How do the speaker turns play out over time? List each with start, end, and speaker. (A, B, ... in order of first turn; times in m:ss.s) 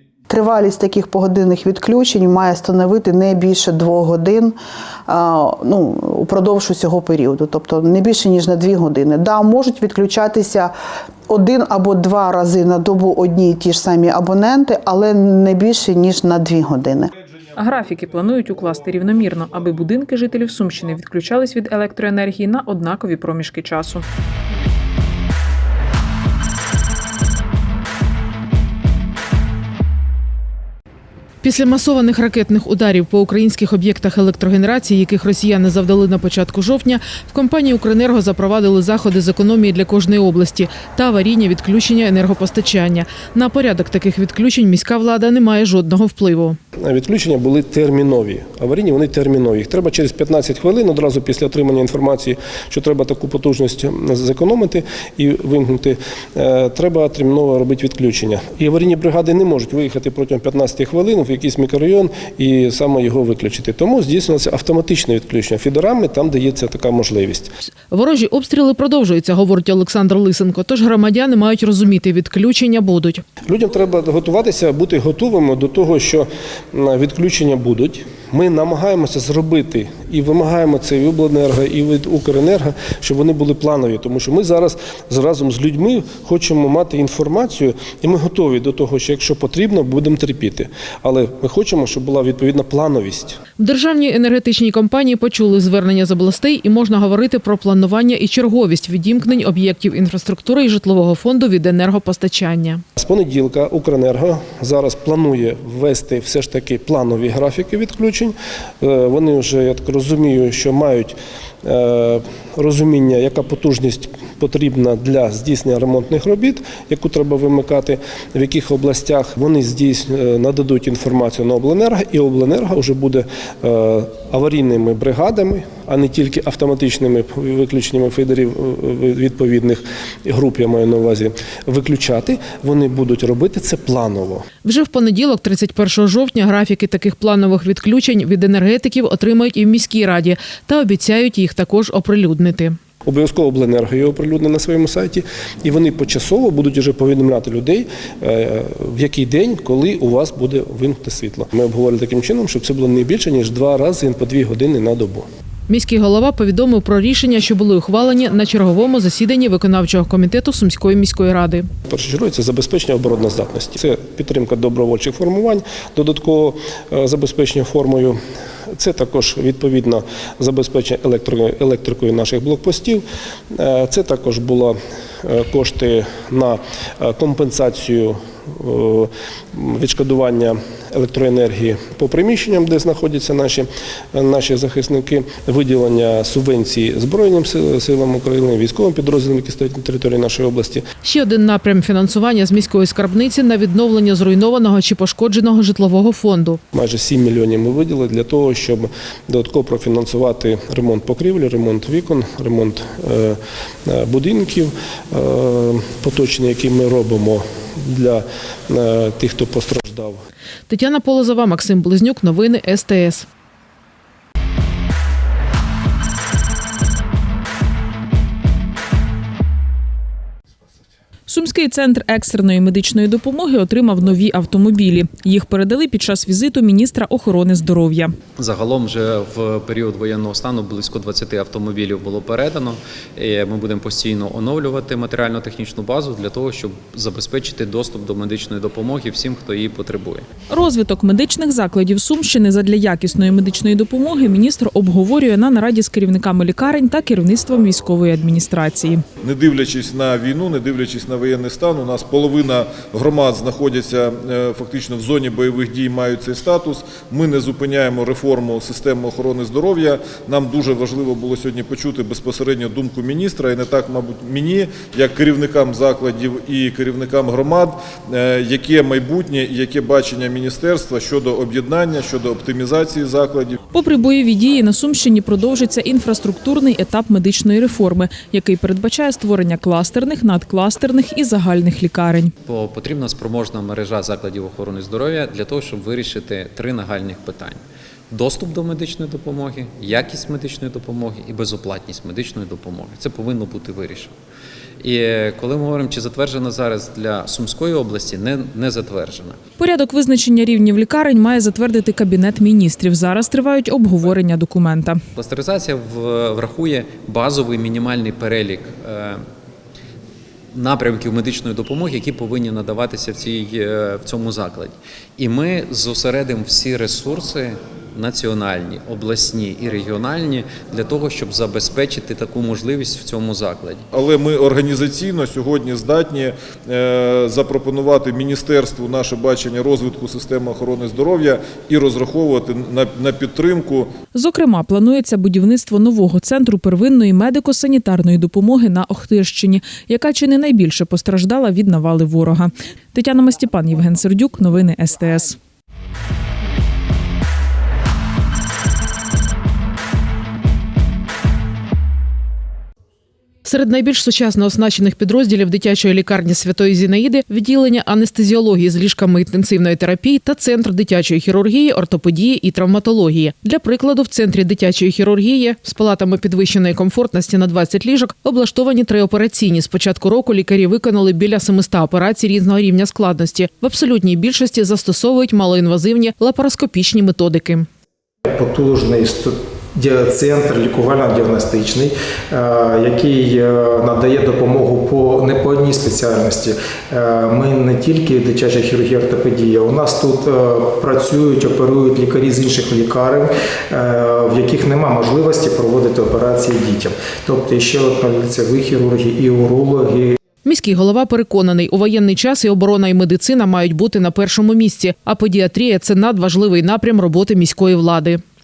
0:00.3-0:10.7 A
0:11.3-0:17.1 A
0:17.6-0:24.0 B
0:31.4-0:46.6 C
0:46.8-1:07.5 D
1:07.9-1:13.2 C
1:13.5-1:33.4 D
1:33.6-1:42.8 C
1:43.0-2:14.4 D
2:14.6-2:22.8 C
2:23.0-2:35.2 D
2:35.7-2:41.6 C
2:41.9-2:48.2 D
2:48.7-3:10.8 D
3:11.0-3:16.6 C
3:16.7-3:30.2 D
3:30.7-3:33.2 C
3:41.3-3:48.1 B
3:48.4-4:00.3 E
4:00.5-4:09.0 B
4:09.2-4:33.7 F
4:33.7-4:42.3 B
4:42.4-4:47.6 E
4:48.1-4:54.1 E
4:54.8-4:59.4 E
4:59.6-5:05.0 B
5:05.2-5:09.2 E
5:10.5-5:23.8 E
5:23.9-5:33.9 F
5:34.1-5:45.4 B
5:53.4-6:17.7 C
6:18.2-6:40.2 G
6:40.4-6:48.2 C